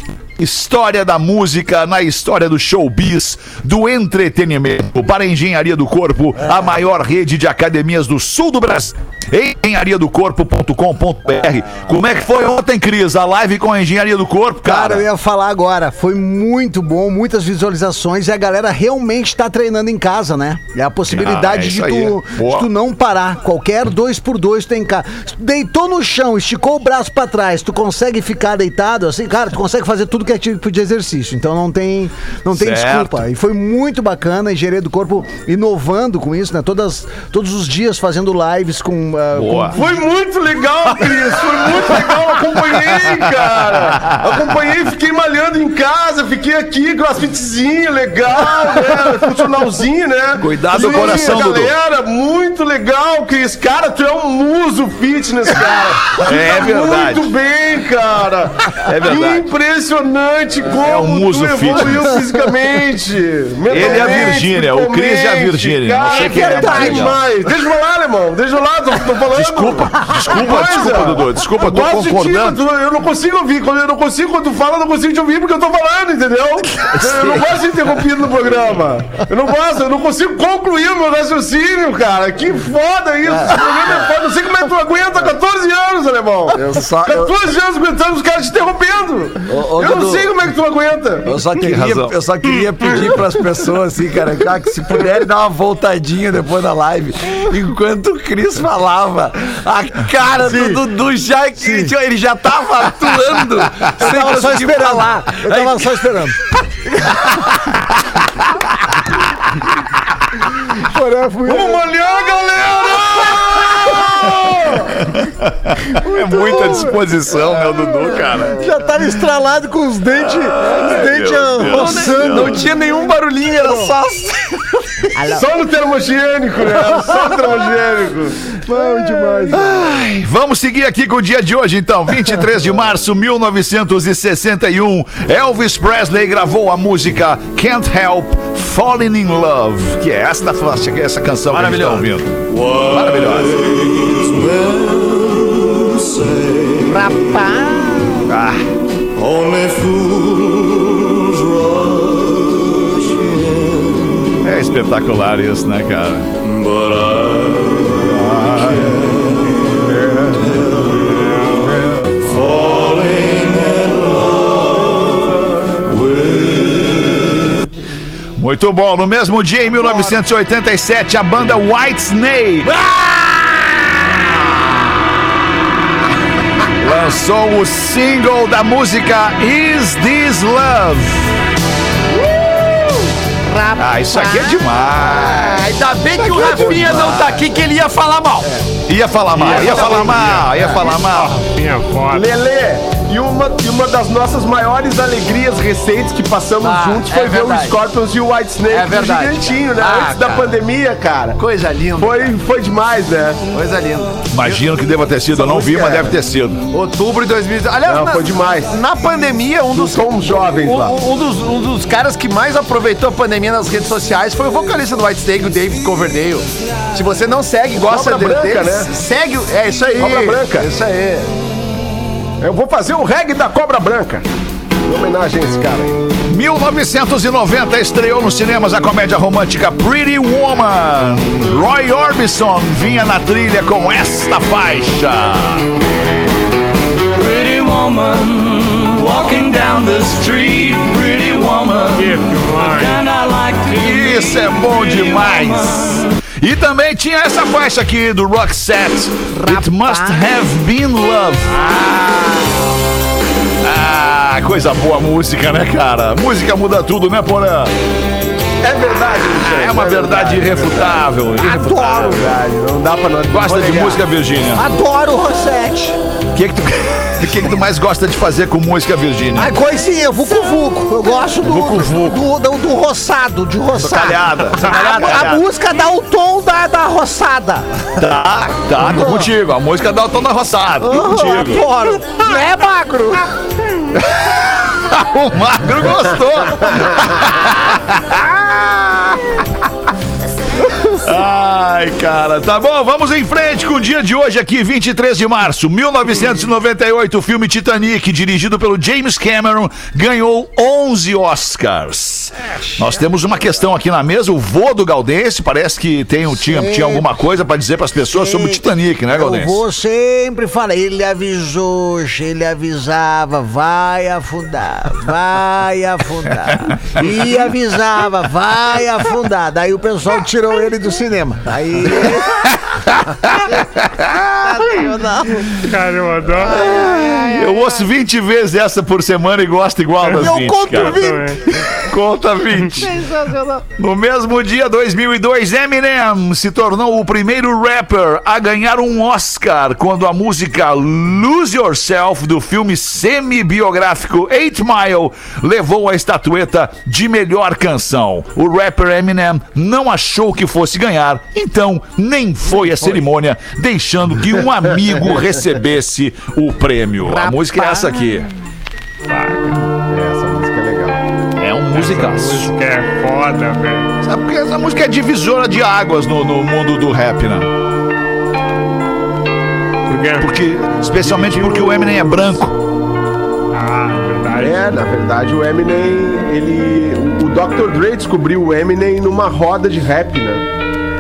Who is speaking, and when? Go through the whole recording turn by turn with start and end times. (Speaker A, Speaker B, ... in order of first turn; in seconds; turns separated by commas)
Speaker A: 0.4-15.1, Speaker B: 14.6-39.9, Speaker A: 21.1-22.7, Speaker A: 32.5-33.2, Speaker A: 39.3-39.8, Speaker C: 39.7-91.5, Speaker A: 43.7-44.2, Speaker A: 50.4-51.7, Speaker A: 56.2-57.3, Speaker A: 58.8-59.5, Speaker A: 60.8-62.2, Speaker A: 63.7-67.2, Speaker B: 66.1-67.2, Speaker A: 69.3-72.6, Speaker D: 86.5-87.3, Speaker D: 89.5-90.3, Speaker D: 91.2-106.1, Speaker A: 91.6-92.0, Speaker B: 101.6-101.9, Speaker B: 104.0-106.5, Speaker A: 107.3-108.6, Speaker B: 110.8-115.0, Speaker C: 111.5-114.9, Speaker A: 114.9-119.0, Speaker B: 116.0-117.0, Speaker B: 118.5-122.5, Speaker A: 120.2-122.7, Speaker D: 121.7-125.1, Speaker B: 125.1-125.5, Speaker C: 125.2-129.8, Speaker B: 128.8-129.5, Speaker A: 129.5-144.7, Speaker D: 141.5-142.1, Speaker B: 146.8-148.3, Speaker A: 148.3-148.7, Speaker A: 149.2-150.2, Speaker A: 154.4-157.0, Speaker A: 157.9-159.5, Speaker A: 162.2-164.0, Speaker A: 165.9-166.9, Speaker A: 168.4-172.7, Speaker D: 172.8-174.3, Speaker A: 176.8-181.3, Speaker B: 183.5-185.1, Speaker A: 183.8-185.7, Speaker D: 185.2-188.7, Speaker C: 186.2-187.4, Speaker A: 186.2-187.1, Speaker A: 188.8-191.4, Speaker E: 189.4-192.3, Speaker D: 189.4-190.3, Speaker C: 192.1-201.4, Speaker D: 196.6-197.8, Speaker D: 198.7-200.6, Speaker D: 201.3-202.4, Speaker C: 202.0-203.4, Speaker D: 203.5-204.3, Speaker A: 204.3-206.7, Speaker C: 205.3-206.2, Speaker D: 206.7-221.3, Speaker C: 207.8-208.8, Speaker C: 209.7-211.0, Speaker C: 217.8-218.9, Speaker C: 219.9-220.8, Speaker C: 222.4-224.3, Speaker C: 224.8-226.0, Speaker A: 226.3-235.7, Speaker F: 237.1-245.8, Speaker A: 238.8-242.0, Speaker E: 241.9-243.1, Speaker A: 243.6-251.7, Speaker B: 249.3-250.4, Speaker A: 253.6-257.8, Speaker C: 258.6-261.0, Speaker A: 259.3-262.1, Speaker B: 261.4-262.3, Speaker C: 261.9-264.0, Speaker A: 263.3-264.6, Speaker B: 264.6-266.0, Speaker A: 266.3-269.6, Speaker B: 269.4-277.7, Speaker A: 271.4-272.2, Speaker A: 273.8-275.4, Speaker A: 277.9-281.7, Speaker B: 278.8-279.3, Speaker B: 280.8-283.3, Speaker A: 284.0-289.5, Speaker A: 290.8-309.6, Speaker B: 306.4-307.1, Speaker B: 308.1-322.5, Speaker A: 323.0-324.9, Speaker B: 324.3-325.6, Speaker E: 325.5-326.6, Speaker A: 326.4-333.1, Speaker B: 326.4-327.9, Speaker E: 330.1-331.4, Speaker B: 330.1-331.9, Speaker B: 332.8-333.6, Speaker A: 333.7-358.3, Speaker B: 357.0-358.0, Speaker E: 359.1-359.6, Speaker C: 359.9-361.0, Speaker A: 361.4-362.5, Speaker E: 361.7-363.9, Speaker A: 364.0-367.5, Speaker E: 369.9-370.3, Speaker A: 370.2-372.6, Speaker C: 371.0-372.3, Speaker E: 373.5-374.7, Speaker C: 374.3-380.5